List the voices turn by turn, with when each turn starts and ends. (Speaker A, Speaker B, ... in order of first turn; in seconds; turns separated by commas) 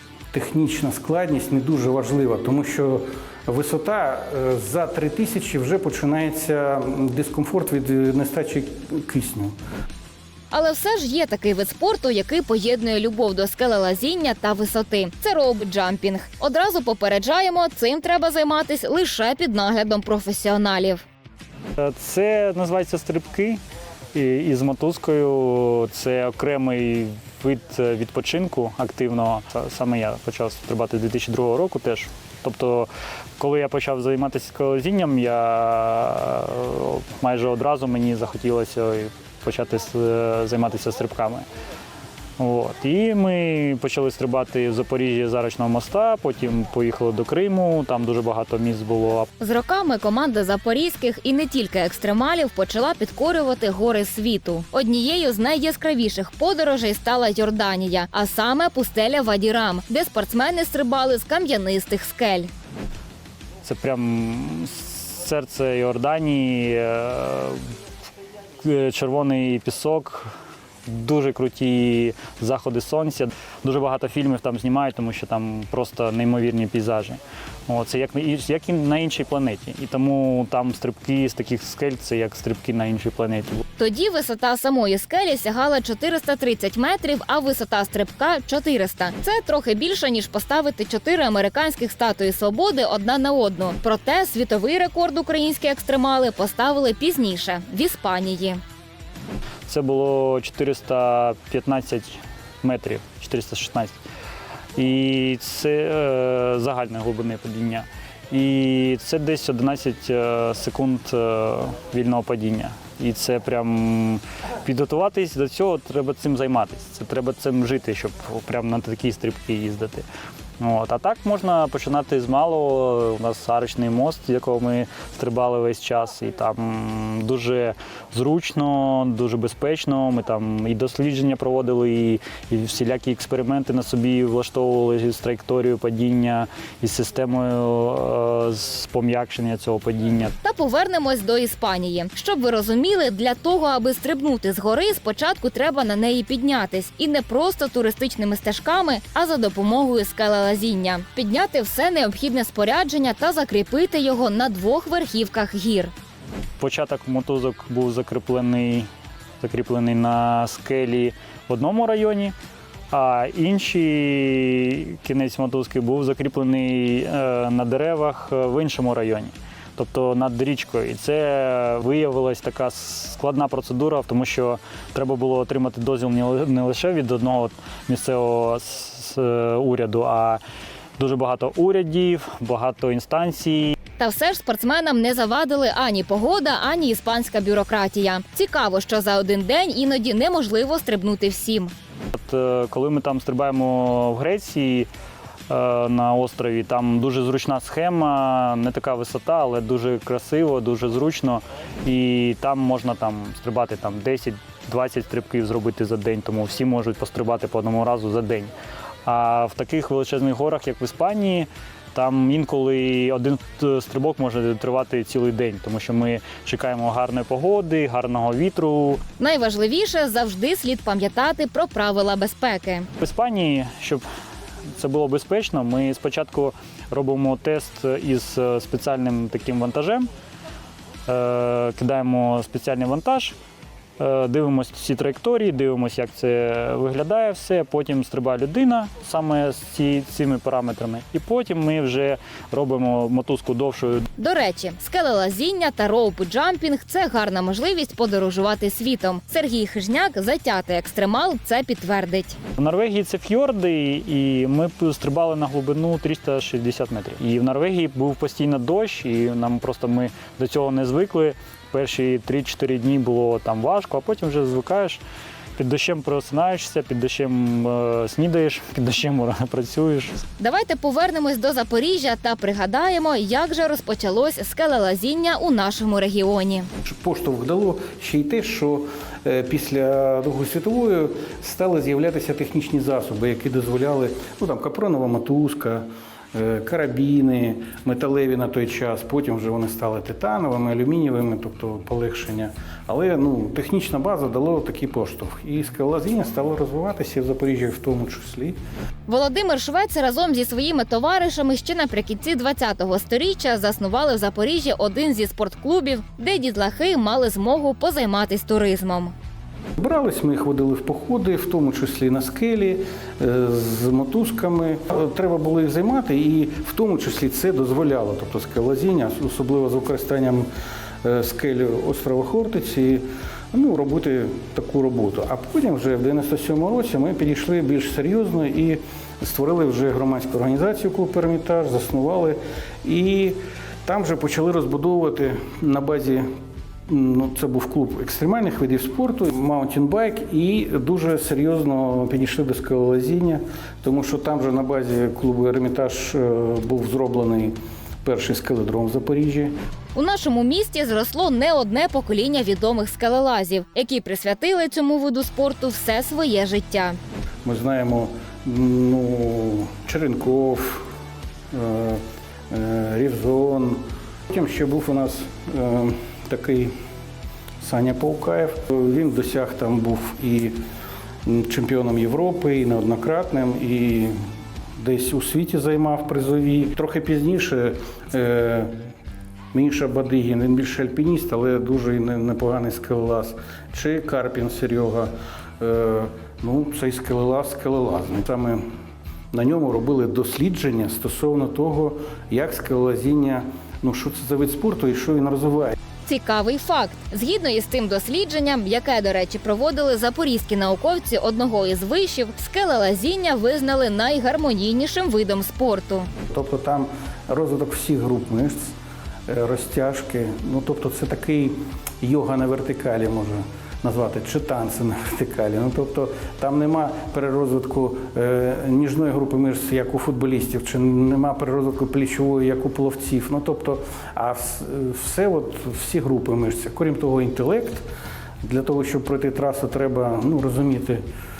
Speaker A: 0.3-9.6, Speaker B: 10.5-21.0, Speaker C: 21.8-23.6, Speaker C: 24.1-41.5, Speaker C: 42.4-49.3, Speaker B: 49.4-62.5, Speaker C: 63.6-67.6, Speaker C: 68.6-70.3, Speaker C: 70.9-83.6, Speaker B: 83.8-98.6, Speaker C: 99.7-104.0, Speaker C: 104.8-120.1, Speaker C: 120.6-140.3, Speaker B: 140.4-155.9, Speaker C: 156.6-158.9, Speaker C: 159.4-162.3, Speaker C: 162.9-180.4, Speaker C: 181.0-183.8, Speaker B: 184.0-191.7, Speaker C: 192.1-194.9, Speaker C: 195.5-208.5, Speaker C: 209.1-219.0, Speaker B: 219.2-222.9, Speaker C: 223.0-224.0, Speaker C: 224.8-230.1, Speaker C: 231.1-233.3, Speaker C: 234.0-244.1, Speaker B: 244.2-252.4, Speaker C: 252.6-265.0, Speaker C: 265.6-270.2, Speaker B: 270.4-276.7, Speaker A: 276.8-298.6, Speaker B: 299.1-309.1, Speaker A: 309.8-320.5, Speaker A: 321.0-336.3, Speaker A: 336.9-349.6, Speaker B: 349.9-357.0, Speaker A: 357.4-360.9, Speaker A: 361.5-366.7, Speaker A: 367.6-370.6, Speaker A: 371.3-374.2, Speaker A: 374.8-378.7, Speaker A: 379.5-388.7, Speaker A: 389.3-395.8, Speaker B: 396.1-406.1, Speaker A: 406.3-408.7, Speaker A: 409.3-427.9, Speaker A: 428.4-431.0